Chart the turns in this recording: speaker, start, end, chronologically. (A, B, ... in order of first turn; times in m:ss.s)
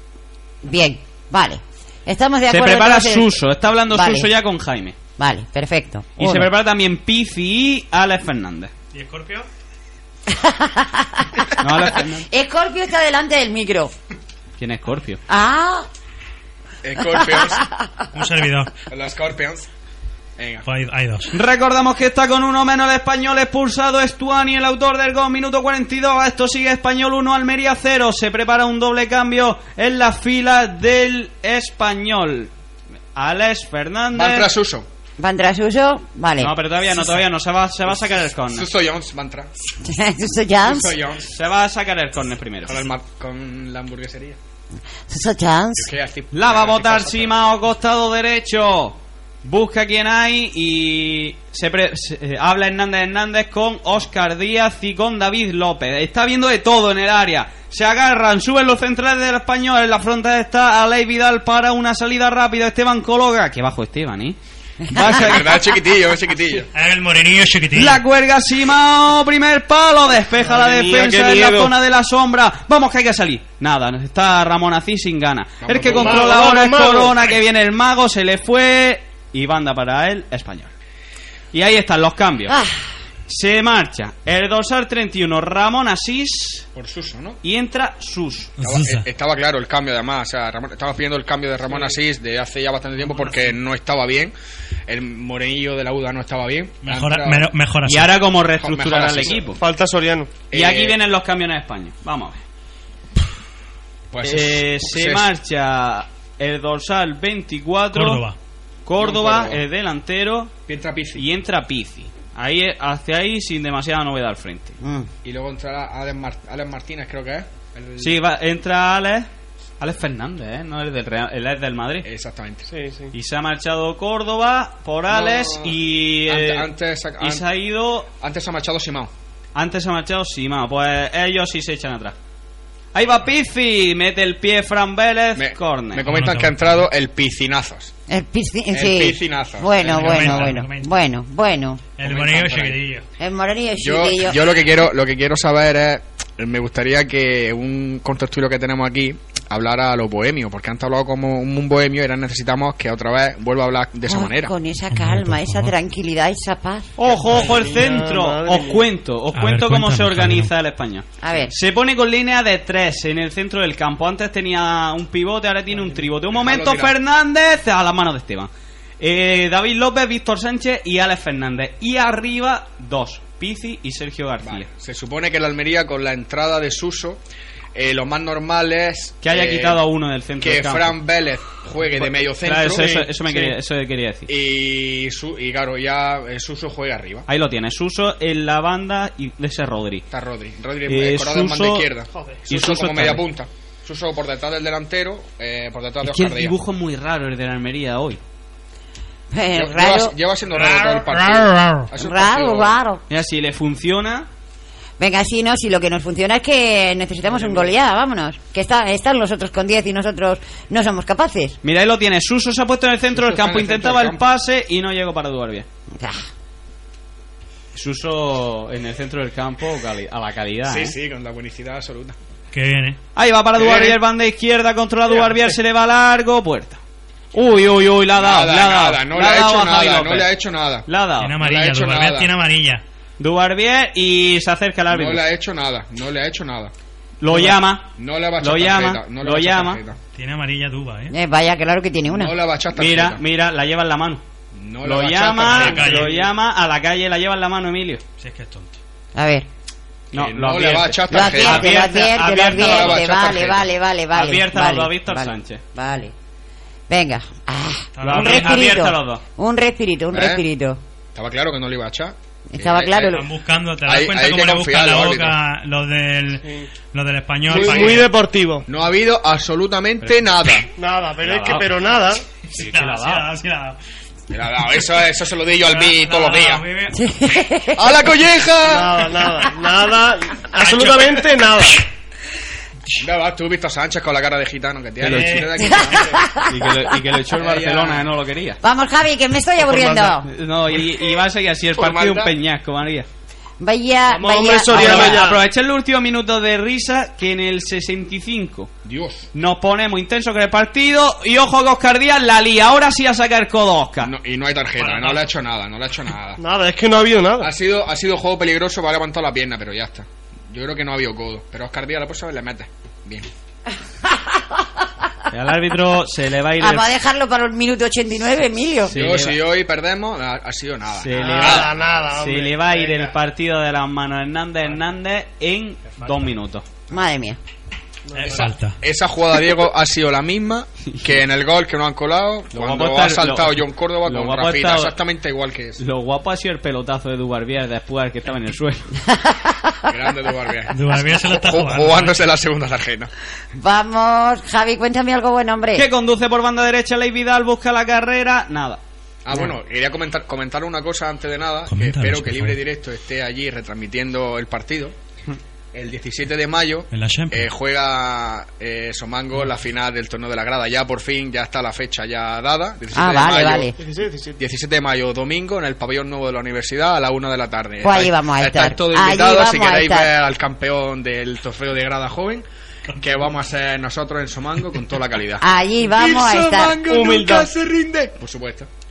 0:00.6-0:03.4 A
0:02.5-0:05.0 B
0:03.9-0:04.3 A
0:05.2-0:06.5 A
0:06.2-0:08.7 B
0:08.9-0:09.5 C
0:10.3-0:11.5 A
0:11.6-0:12.3 B
0:12.3-0:13.9 A
0:14.6-0:15.2 B
0:15.3-0:15.9 A
0:16.8-0:17.6 D
0:17.1-0:17.9 A
0:18.1-0:18.7 C
0:18.9-0:19.7 D
0:20.4-0:20.6 D
0:20.6-0:21.3 C
0:21.3-0:32.5 B
0:33.1-0:34.5 B
0:34.1-0:34.9 D
0:35.2-0:36.5 A
0:36.4-0:38.7 B
0:37.9-0:39.5 D
0:39.8-0:40.9 A
0:40.6-0:41.3 D
0:41.3-0:42.8 B
0:42.6-0:44.4 D
0:45.1-0:45.9 A
0:45.8-0:47.3 D
0:46.3-1:04.4 B
1:04.9-1:05.5 B
1:04.9-1:06.7 D
1:06.7-1:08.0 C
1:07.7-1:20.7 B
1:10.4-1:11.7 E
1:15.6-1:16.3 D
1:15.9-1:17.2 E
1:21.5-1:22.6 B
1:22.5-1:22.8 A
1:23.3-1:26.7 B
1:26.7-1:27.4 D
1:27.4-1:28.5 B
1:28.6-1:29.0 C
1:28.6-1:34.3 D
1:33.1-1:33.5 C
1:34.9-1:37.5 D
1:36.8-1:38.1 C
1:37.8-1:39.6 B
1:38.6-1:39.4 D
1:39.5-1:40.4 E
1:40.5-1:41.0 D
1:40.5-1:42.4 B
1:44.1-1:45.3 D
1:44.2-1:48.2 B
1:47.9-1:48.4 C
1:48.8-1:50.5 B
1:49.0-1:49.6 D
1:50.7-1:51.2 D
1:51.2-1:54.8 B
1:54.8-1:55.1 A
1:55.2-1:58.2 D
1:58.0-1:59.3 B
1:59.8-2:02.0 B
2:02.0-2:02.7 D
2:02.7-2:03.1 E
2:03.1-2:08.1 B
2:05.1-2:07.5 D
2:08.2-2:09.1 D
2:09.5-2:12.1 B
2:12.9-2:16.0 B
2:15.3-2:17.9 D
2:16.0-2:16.8 C
2:18.1-2:21.8 A
2:18.7-2:20.6 D
2:19.8-2:20.9 C
2:22.0-2:23.0 C
2:22.0-2:22.8 D
2:23.2-2:24.6 A
2:23.8-2:34.5 D
2:34.1-2:36.9 A
2:34.9-2:35.7 C
2:37.0-2:54.7 B
2:37.0-2:38.8 E
2:39.3-2:40.5 C
2:41.2-2:41.5 A
2:46.3-2:46.9 D
2:54.4-2:57.2 D
2:57.7-2:59.8 D
2:59.2-3:01.0 B
3:00.4-3:03.0 D
3:02.2-3:04.3 B
3:03.0-3:03.5 E
3:04.3-3:07.2 D
3:07.3-3:10.0 B
3:10.1-3:16.5 D
3:10.9-3:11.9 B
3:12.5-3:13.2 B
3:16.0-3:18.2 B
3:19.3-3:20.1 A
3:19.5-3:22.7 D
3:20.5-3:21.9 C
3:22.0-3:23.0 A
3:23.1-3:24.3 B
3:25.0-3:31.6 A
3:31.6-3:35.6 B
3:33.1-3:34.2 D
3:35.9-3:36.2 A
3:37.7-3:40.9 B
3:40.6-3:42.2 D
3:42.5-3:43.0 C
3:43.1-3:46.8 B
3:43.6-3:44.0 D
3:47.3-3:50.3 B
3:48.1-3:50.9 D
3:50.8-3:51.3 B
3:51.2-3:52.8 C
3:51.4-3:52.3 D
3:53.2-3:55.2 B
3:54.9-3:56.7 D
3:57.2-3:57.9 B
3:57.3-4:00.0 D
3:58.4-3:59.8 B
4:00.1-4:01.1 C
4:01.1-4:02.3 A
4:02.1-4:03.2 D
4:02.7-4:04.2 B
4:04.5-4:06.1 D
4:04.8-4:08.0 B
4:05.4-4:06.2 C
4:05.8-4:06.2 E
4:08.2-4:08.8 C
4:09.1-4:09.5 A
4:10.1-4:11.7 D
4:10.1-4:13.0 B
4:11.1-4:16.1 A
4:12.4-4:13.6 D
4:14.1-4:15.6 B
4:16.9-4:20.8 A
4:18.0-4:18.8 C
4:18.0-4:19.2 B
4:20.1-4:20.4 D
4:21.1-4:23.2 D
4:22.5-4:23.2 A
4:23.0-4:28.1 C
4:23.8-4:25.4 D
4:27.5-4:28.6 E
4:27.5-4:27.9 D
4:28.7-4:30.7 D
4:30.8-4:32.2 E
4:31.2-4:31.7 B
4:32.5-4:33.8 C
4:32.6-4:33.2 B
4:34.3-4:36.6 D
4:35.6-4:37.0 C
4:36.9-4:38.0 A
4:37.7-4:39.2 D
4:38.6-4:41.8 E
4:40.6-4:41.3 C
4:43.0-4:46.2 D
4:45.0-4:45.5 B
4:45.0-4:45.8 C
4:45.6-4:46.8 A
4:46.5-4:48.6 B
4:47.3-4:48.1 D
4:48.6-4:50.2 A
4:49.7-4:50.0 E
4:50.2-4:53.1 B
4:51.8-4:52.3 D
4:53.6-4:55.2 A
4:54.1-4:55.4 E
4:54.7-4:58.7 B
4:58.8-4:59.2 D
4:59.3-5:04.1 B
5:04.0-5:06.4 D
5:04.8-5:05.3 C
5:06.4-5:07.5 E
5:07.4-5:13.3 D
5:14.0-5:14.8 A
5:15.3-5:16.9 B
5:16.6-5:18.9 A
5:18.8-5:19.4 B
5:18.9-5:21.9 D
5:21.0-5:26.6 B
5:21.1-5:23.1 E
5:26.9-5:27.4 A
5:28.1-5:28.5 E
5:28.1-5:28.8 C
5:28.8-5:35.8 D
5:32.5-5:34.9 B
5:35.8-5:38.9 B
5:39.0-5:39.9 A
5:39.9-5:43.1 D
5:40.7-5:42.2 C
5:43.5-5:45.9 A
5:45.7-5:48.8 B
5:49.2-5:54.9 D
5:51.7-5:52.6 C
5:55.7-6:03.7 D
5:56.9-5:57.5 C
6:02.9-6:03.8 A
6:03.8-6:04.4 E
6:04.4-6:12.4 D
6:07.8-6:10.1 A
6:13.0-6:18.7 D
6:15.4-6:16.8 A
6:16.8-6:17.5 E